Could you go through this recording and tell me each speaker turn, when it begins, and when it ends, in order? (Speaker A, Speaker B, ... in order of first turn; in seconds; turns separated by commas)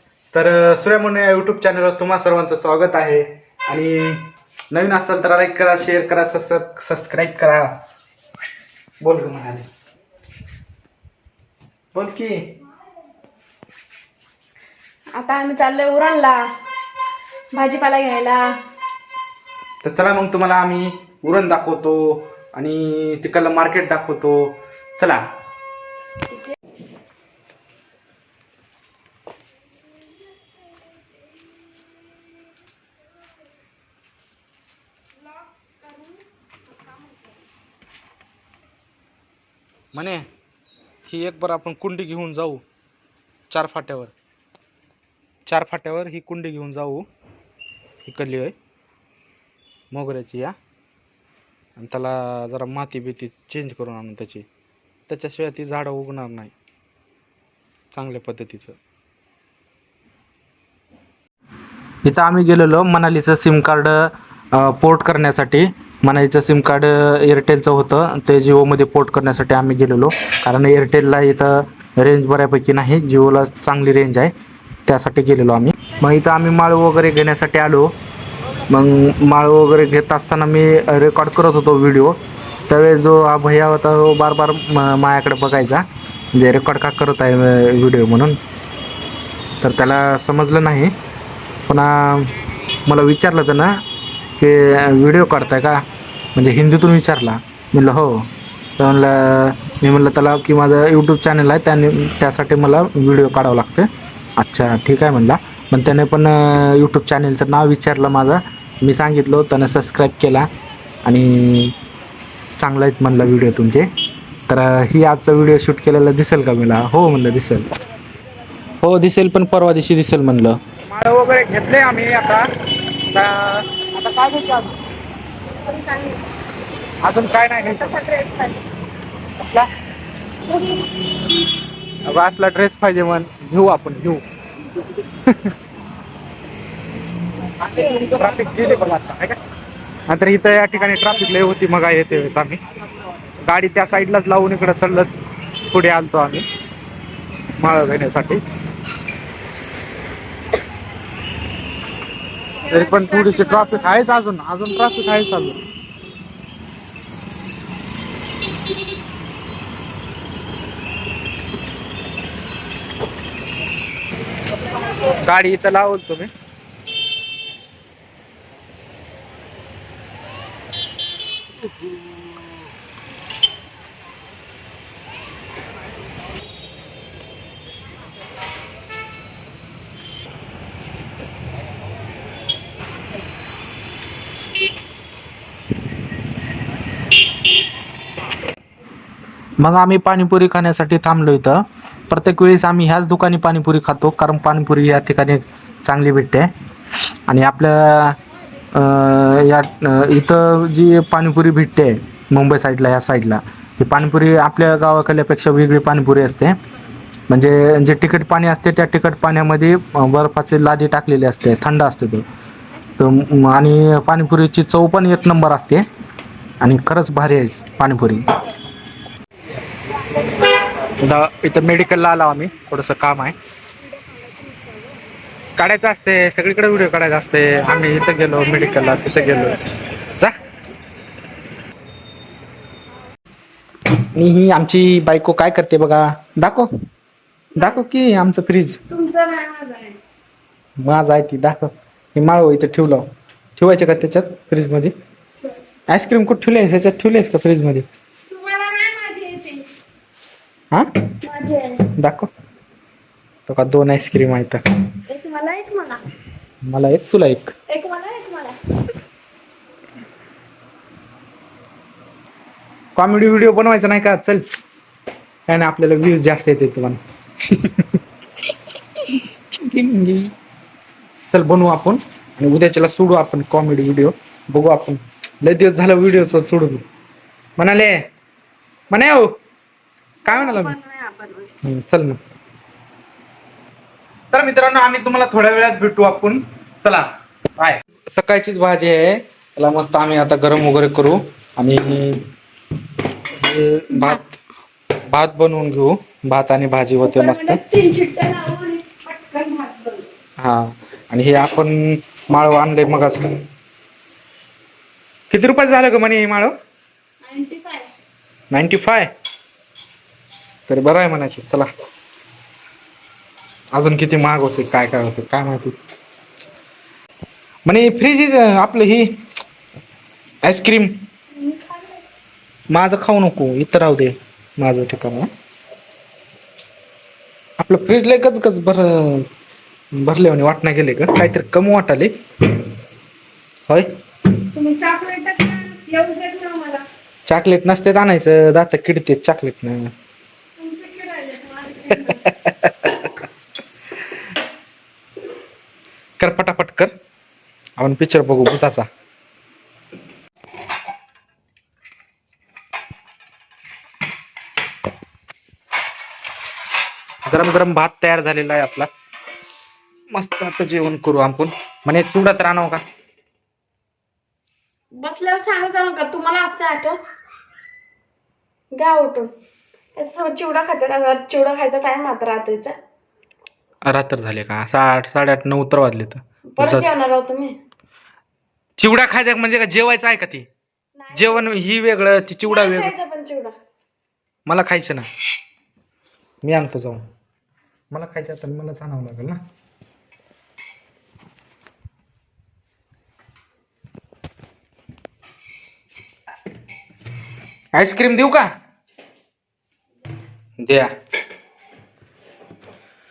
Speaker A: 0.3-7.7, Speaker A: 9.0-9.7, Speaker A: 11.9-12.4, Speaker B: 15.1-16.4, Speaker B: 17.5-18.5, Speaker A: 19.8-25.2, Speaker B: 26.3-26.6, Speaker B: 35.8-36.1, Speaker A: 39.9-40.2, Speaker A: 41.1-42.6, Speaker A: 43.5-44.1, Speaker A: 45.5-47.1, Speaker A: 48.0-48.5, Speaker A: 49.9-50.5, Speaker A: 51.8-54.5, Speaker A: 55.1-56.5, Speaker A: 57.9-58.8, Speaker A: 62.0-74.3, Speaker A: 74.9-77.9, Speaker A: 78.7-82.2, Speaker A: 82.7-88.4, Speaker A: 89.6-90.9, Speaker A: 91.7-92.3, Speaker A: 92.9-93.7, Speaker A: 94.4-110.5, Speaker A: 111.0-111.8, Speaker A: 112.6-113.9, Speaker A: 114.5-117.7, Speaker A: 118.8-122.5, Speaker A: 123.1-124.7, Speaker B: 125.6-126.2, Speaker A: 127.0-127.9, Speaker B: 127.8-128.6, Speaker A: 129.4-129.7, Speaker B: 130.5-130.8, Speaker A: 132.1-134.2, Speaker A: 135.3-135.5, Speaker A: 137.6-139.4, Speaker A: 140.1-142.6, Speaker A: 143.5-145.1, Speaker A: 145.7-146.4, Speaker A: 147.6-148.4, Speaker B: 152.7-153.8, Speaker A: 152.7-155.6, Speaker A: 165.1-166.3, Speaker A: 189.6-196.5, Speaker A: 197.3-198.2, Speaker A: 198.7-206.6, Speaker A: 207.3-212.2, Speaker A: 213.0-215.8, Speaker A: 216.6-218.3, Speaker A: 221.0-223.3, Speaker B: 224.0-225.0, Speaker A: 225.6-229.6, Speaker B: 228.4-229.5, Speaker A: 234.1-236.7, Speaker B: 237.6-237.8, Speaker A: 237.6-238.8, Speaker B: 238.9-240.0, Speaker A: 240.8-244.9, Speaker A: 245.9-247.8, Speaker B: 248.3-249.7, Speaker B: 251.2-251.9, Speaker A: 252.0-252.3, Speaker A: 253.5-254.6, Speaker B: 255.1-256.0, Speaker A: 256.7-257.5, Speaker B: 257.7-258.6, Speaker A: 263.0-264.4, Speaker A: 265.5-268.0, Speaker A: 269.0-270.3, Speaker A: 271.3-276.8, Speaker A: 277.6-278.0, Speaker A: 278.9-279.3, Speaker B: 280.2-281.5, Speaker A: 280.3-280.8, Speaker A: 281.6-282.2, Speaker A: 284.3-287.1, Speaker A: 287.6-292.2, Speaker A: 293.3-294.4, Speaker B: 293.9-294.2, Speaker A: 295.1-297.6, Speaker B: 297.0-300.0, Speaker A: 300.4-303.3, Speaker A: 305.3-306.5, Speaker B: 307.2-307.9, Speaker A: 308.5-309.1, Speaker A: 310.7-311.7, Speaker A: 313.7-315.8, Speaker A: 317.7-319.2, Speaker A: 320.4-321.0, Speaker B: 321.4-321.9, Speaker A: 322.7-325.3, Speaker A: 327.6-329.3, Speaker A: 329.9-332.1, Speaker B: 334.5-336.9, Speaker A: 337.3-339.9, Speaker B: 340.6-342.3, Speaker A: 342.2-342.9, Speaker A: 346.2-346.9, Speaker A: 347.8-348.9, Speaker A: 357.3-358.9, Speaker A: 360.1-362.8, Speaker B: 365.0-367.0, Speaker B: 368.7-369.3, Speaker B: 370.0-372.8, Speaker A: 373.9-376.9, Speaker B: 376.6-377.6, Speaker A: 378.8-380.5, Speaker B: 381.0-381.6, Speaker A: 381.1-382.9, Speaker B: 382.4-383.5, Speaker A: 384.5-385.1, Speaker A: 386.4-387.1, Speaker A: 387.9-389.4, Speaker A: 397.7-398.5, Speaker A: 400.6-400.9